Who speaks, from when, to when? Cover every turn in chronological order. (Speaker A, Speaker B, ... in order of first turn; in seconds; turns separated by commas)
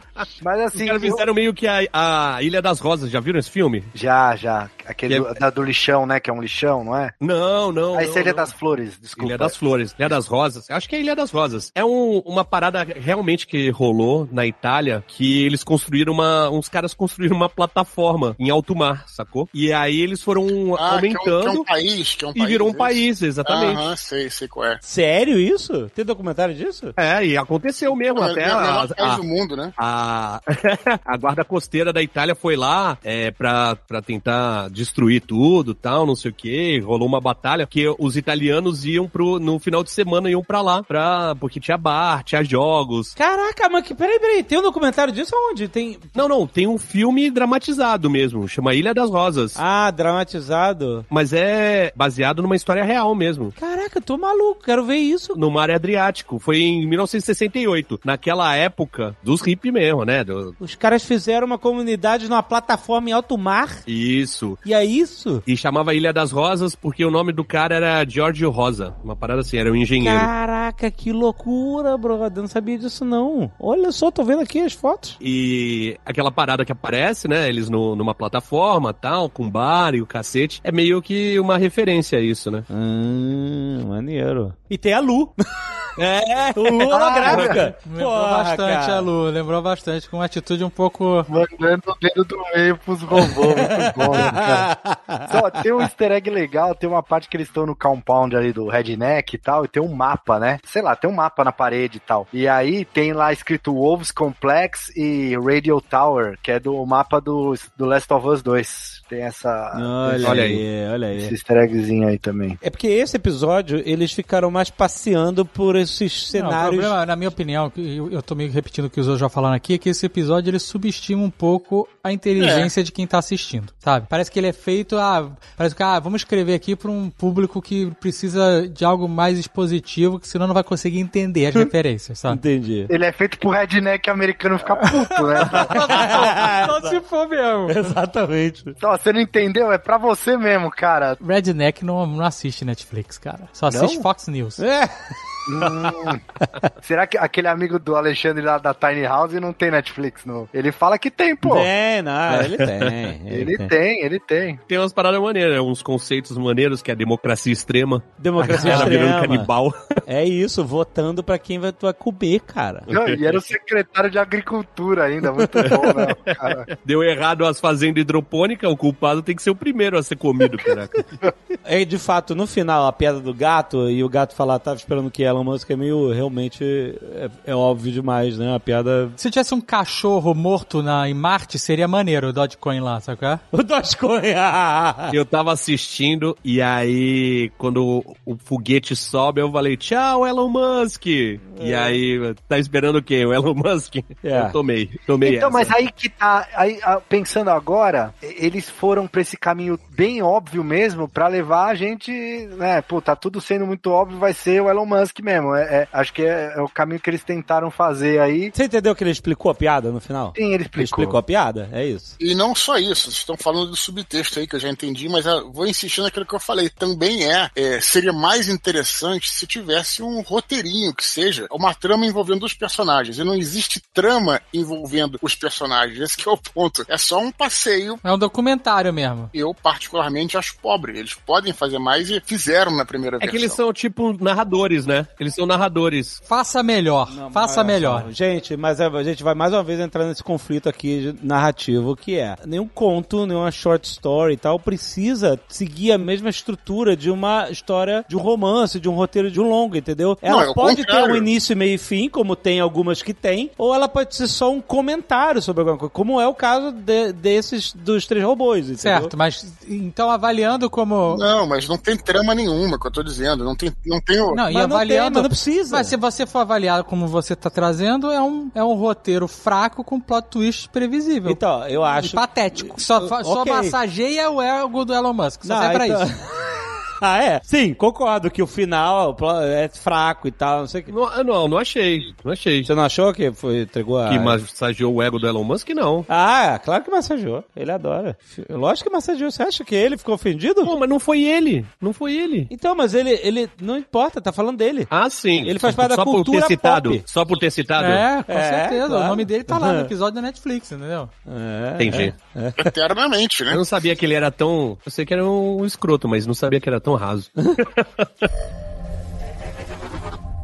Speaker A: 0.4-1.2, Speaker B: 0.7-3.9, Speaker A: 3.9-7.1, Speaker B: 7.2-8.4, Speaker A: 7.9-9.6, Speaker B: 9.2-21.7, Speaker C: 20.8-24.8, Speaker B: 22.3-23.9, Speaker D: 24.8-26.9, Speaker B: 27.0-29.2, Speaker C: 28.1-29.7, Speaker B: 29.8-43.1, Speaker D: 43.2-46.1, Speaker B: 46.1-49.6, Speaker D: 49.5-51.0, Speaker B: 51.1-53.5, Speaker D: 53.6-55.4, Speaker B: 55.3-60.5, Speaker D: 60.6-63.8, Speaker B: 63.9-64.6, Speaker D: 64.6-65.4, Speaker B: 65.5-70.3, Speaker D: 70.0-75.2, Speaker B: 75.2-82.6, Speaker D: 82.7-85.3, Speaker B: 86.0-87.4, Speaker D: 86.5-89.1, Speaker A: 86.9-87.5, Speaker E: 87.4-91.3, Speaker A: 91.3-94.7, Speaker D: 93.2-95.3, Speaker A: 95.2-110.5, Speaker D: 109.7-111.3, Speaker B: 110.2-110.6, Speaker A: 111.1-112.6, Speaker D: 112.6-116.9, Speaker E: 116.3-132.4, Speaker C: 122.4-122.7, Speaker D: 132.3-132.9, Speaker A: 132.9-136.1, Speaker E: 134.8-137.7, Speaker D: 135.5-137.0, Speaker D: 137.7-138.7, Speaker A: 138.8-141.2, Speaker E: 141.2-144.6, Speaker A: 143.7-144.0, Speaker D: 144.6-145.1, Speaker A: 145.5-146.2, Speaker A: 146.8-151.7, Speaker D: 151.4-153.7, Speaker B: 152.4-153.0, Speaker A: 153.3-154.6, Speaker B: 154.7-160.0, Speaker D: 158.2-159.5, Speaker A: 158.6-158.9, Speaker D: 160.1-162.9, Speaker B: 162.9-163.4, Speaker A: 162.9-166.7, Speaker D: 165.4-165.9, Speaker B: 165.6-171.1, Speaker D: 171.6-179.2, Speaker E: 179.2-183.4, Speaker D: 183.5-185.1, Speaker B: 185.1-195.7, Speaker D: 191.6-192.0, Speaker D: 194.2-194.6, Speaker A: 195.2-208.5, Speaker D: 208.5-212.2, Speaker A: 210.3-211.2, Speaker C: 212.2-228.0, Speaker E: 228.0-229.3, Speaker C: 229.3-233.6, Speaker B: 233.2-236.2, Speaker E: 236.3-238.1, Speaker D: 237.1-259.1, Speaker C: 250.2-251.3, Speaker E: 258.8-261.2, Speaker C: 261.1-264.4, Speaker E: 264.3-276.1, Speaker D: 264.5-265.9, Speaker D: 271.2-273.8, Speaker D: 275.4-280.9, Speaker B: 280.9-282.7, Speaker D: 282.6-284.4, Speaker B: 284.1-286.1, Speaker D: 286.1-290.7, Speaker B: 290.6-292.5, Speaker D: 292.5-294.9, Speaker B: 294.9-298.1, Speaker D: 295.4-297.0, Speaker E: 297.8-301.1, Speaker D: 298.3-299.9, Speaker D: 301.3-302.7, Speaker B: 301.8-302.1, Speaker C: 302.6-303.6, Speaker B: 303.5-308.3